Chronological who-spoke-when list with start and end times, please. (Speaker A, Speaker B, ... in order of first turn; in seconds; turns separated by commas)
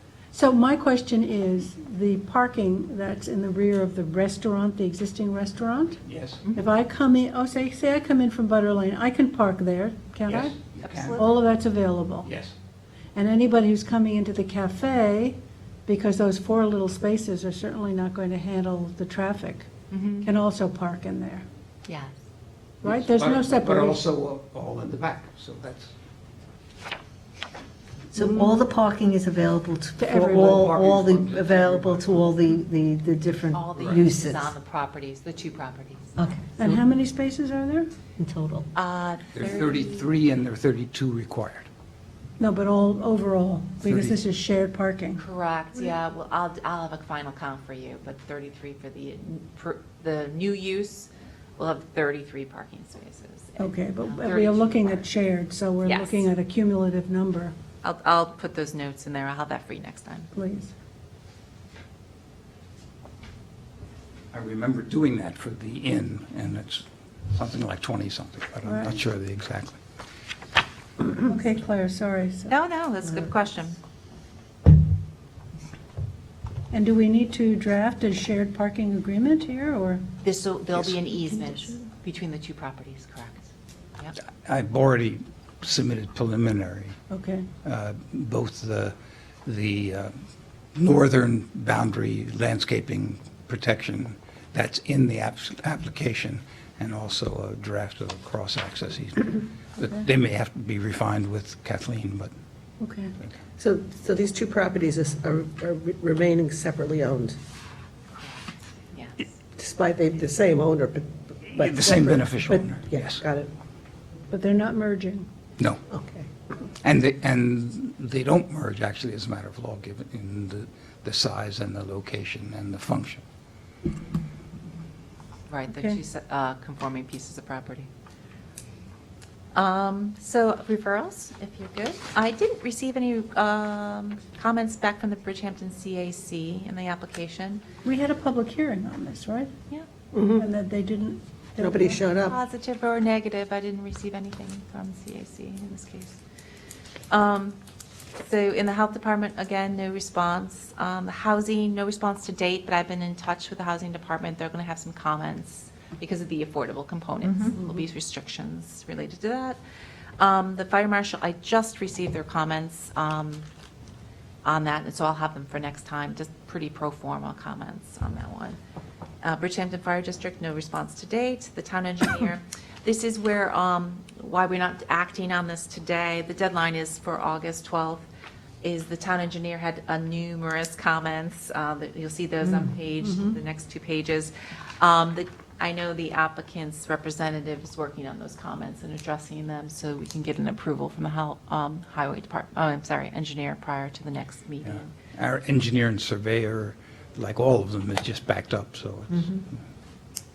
Speaker A: 0.3-6.0, Speaker B: 6.0-6.4, Speaker A: 6.5-10.6, Speaker B: 10.3-11.3, Speaker C: 10.8-11.2, Speaker A: 11.2-12.3, Speaker B: 12.2-12.5, Speaker A: 13.1-19.7, Speaker C: 19.9-20.3, Speaker A: 20.2-21.4, Speaker C: 21.9-22.1, Speaker A: 22.8-24.0, Speaker B: 22.8-25.9, Speaker D: 28.1-34.5, Speaker A: 30.0-30.6, Speaker B: 30.2-32.3, Speaker C: 33.5-36.3, Speaker B: 33.8-34.0, Speaker D: 36.1-36.5, Speaker A: 36.5-37.9, Speaker D: 38.2-38.6, Speaker C: 38.7-40.1, Speaker B: 39.3-41.7, Speaker A: 42.4-45.2, Speaker B: 43.8-44.2, Speaker C: 45.2-55.0, Speaker A: 53.6-57.5, Speaker C: 55.8-56.3, Speaker C: 57.8-60.3, Speaker A: 60.3-60.7, Speaker B: 64.3-69.8, Speaker A: 68.6-69.0, Speaker A: 71.0-72.5, Speaker C: 72.5-73.8, Speaker A: 76.7-80.0, Speaker C: 80.2-83.5, Speaker B: 84.2-87.0, Speaker A: 87.1-87.5, Speaker B: 87.6-88.9, Speaker B: 89.5-90.1, Speaker B: 90.7-102.3, Speaker A: 102.8-103.1, Speaker E: 103.6-107.4, Speaker C: 108.1-109.3, Speaker E: 109.5-113.5, Speaker B: 111.5-113.2, Speaker A: 114.3-115.3, Speaker B: 115.6-115.8, Speaker E: 115.9-116.3, Speaker B: 116.8-123.2, Speaker C: 125.5-127.9, Speaker A: 125.7-126.0, Speaker C: 129.5-137.6, Speaker A: 137.8-139.5, Speaker E: 140.1-140.4, Speaker A: 140.3-142.1, Speaker E: 141.6-142.4, Speaker C: 142.2-146.2, Speaker C: 147.1-147.6, Speaker C: 148.2-159.6, Speaker C: 160.2-163.5, Speaker C: 164.4-168.6, Speaker C: 169.2-178.0, Speaker C: 178.6-194.9, Speaker A: 183.0-183.4, Speaker B: 194.7-199.4